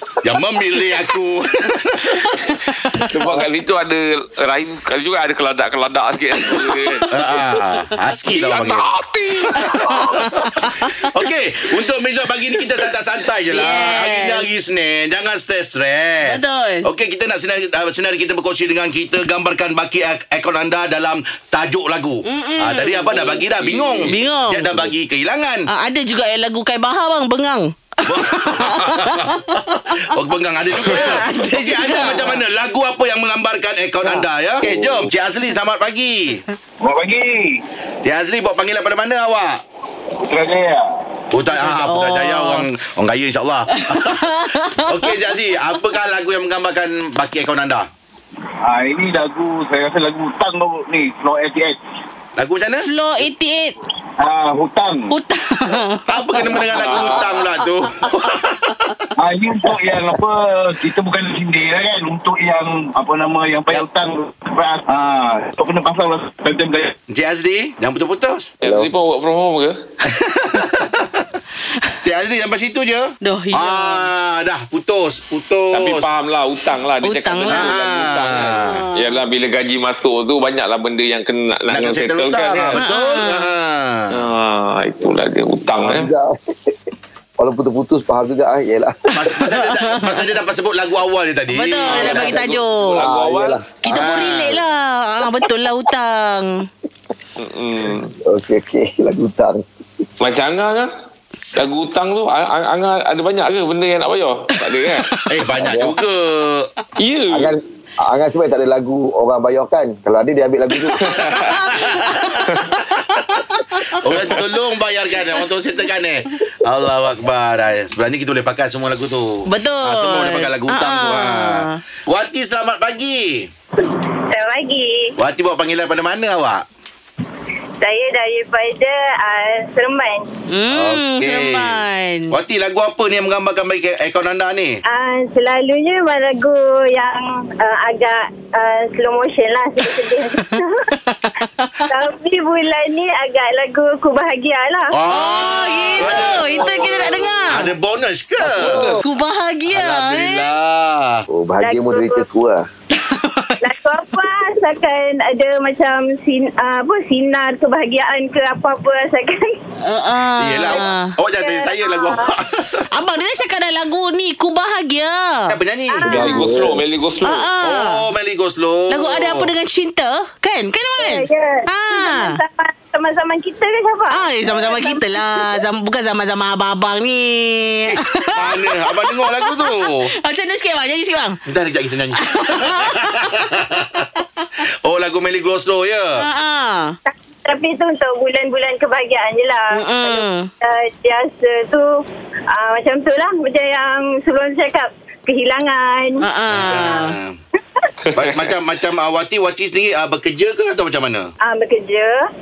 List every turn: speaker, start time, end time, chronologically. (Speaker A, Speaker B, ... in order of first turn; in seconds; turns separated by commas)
Speaker A: 0.2-2.3, Speaker B: 2.3-3.1, Speaker C: 3.0-7.1, Speaker B: 6.5-7.8, Speaker A: 7.1-8.9, Speaker C: 8.3-10.4, Speaker A: 9.5-25.7, Speaker B: 9.6-11.0, Speaker B: 13.5-14.4, Speaker B: 16.2-16.9, Speaker B: 22.2-23.3, Speaker C: 23.3-24.1, Speaker B: 24.1-24.9, Speaker B: 25.7-29.4, Speaker A: 28.1-36.4, Speaker B: 30.8-32.4, Speaker D: 34.0-35.0, Speaker E: 36.8-37.6, Speaker A: 38.0-39.6, Speaker E: 40.2-40.9, Speaker A: 41.3-47.9, Speaker B: 41.6-42.7, Speaker B: 43.7-45.2, Speaker E: 48.6-51.8, Speaker A: 52.4-52.9, Speaker B: 52.8-53.7, Speaker E: 54.2-55.1, Speaker B: 55.1-57.3, Speaker A: 56.1-58.9, Speaker C: 56.8-57.2, Speaker E: 59.2-66.9, Speaker A: 67.1-68.5, Speaker C: 68.6-69.8, Speaker D: 68.6-68.9, Speaker A: 70.0-71.3, Speaker A: 72.0-76.0, Speaker B: 73.2-74.1, Speaker C: 75.7-82.8, Speaker B: 77.0-77.8, Speaker A: 77.5-78.8, Speaker B: 78.7-79.2, Speaker A: 81.7-84.2, Speaker B: 82.8-83.5, Speaker C: 84.1-86.1, Speaker D: 85.8-86.7, Speaker D: 87.4-89.0, Speaker A: 89.1-92.4, Speaker B: 89.4-90.2, Speaker B: 91.5-93.0, Speaker D: 91.9-94.2, Speaker C: 92.0-93.6, Speaker B: 93.8-96.7, Speaker A: 93.9-94.6, Speaker C: 97.4-98.1, Speaker D: 98.2-99.6, Speaker C: 100.2-100.9, Speaker C: 101.5-105.1, Speaker A: 105.2-106.7, Speaker D: 105.6-106.0, Speaker C: 107.0-107.5, Speaker D: 107.3-111.3, Speaker C: 111.0-111.7, Speaker A: 111.3-123.5, Speaker B: 111.6-114.0, Speaker B: 119.5-121.8, Speaker F: 124.3-125.1, Speaker A: 125.2-126.6, Speaker F: 127.8-130.3, Speaker B: 130.5-132.3, Speaker A: 130.7-134.8, Speaker F: 134.9-140.9, Speaker B: 140.4-141.8, Speaker F: 141.8-144.9, Speaker A: 144.9-146.9, Speaker B: 145.1-147.7, Speaker F: 146.6-147.1, Speaker A: 147.5-148.9, Speaker D: 148.4-149.0, Speaker B: 148.8-150.5, Speaker A: 149.7-151.3, Speaker D: 151.3-152.6, Speaker F: 151.6-152.2, Speaker B: 152.9-153.6, Speaker F: 153.6-159.6, Speaker B: 159.8-161.1, Speaker A: 160.4-162.9, Speaker F: 161.4-162.3, Speaker B: 162.9-165.5, Speaker A: 165.5-166.2, Speaker F: 165.9-166.5, Speaker D: 166.1-166.8, Speaker C: 166.1-167.5, Speaker B: 167.2-168.0, Speaker A: 167.6-169.5, Speaker B: 168.9-172.4, Speaker F: 171.0-175.6, Speaker B: 174.1-181.4, Speaker A: 177.9-180.1, Speaker A: 181.4-184.1, Speaker B: 182.2-183.4, Speaker A: 184.8-186.3, Speaker B: 186.2-186.9, Speaker F: 187.1-191.9, Speaker B: 189.7-190.5, Speaker F: 192.5-196.2, Speaker B: 196.2-197.2, Speaker A: 196.5-197.4, Speaker C: 198.1-198.5, Speaker A: 198.1-201.3, Speaker F: 201.4-202.2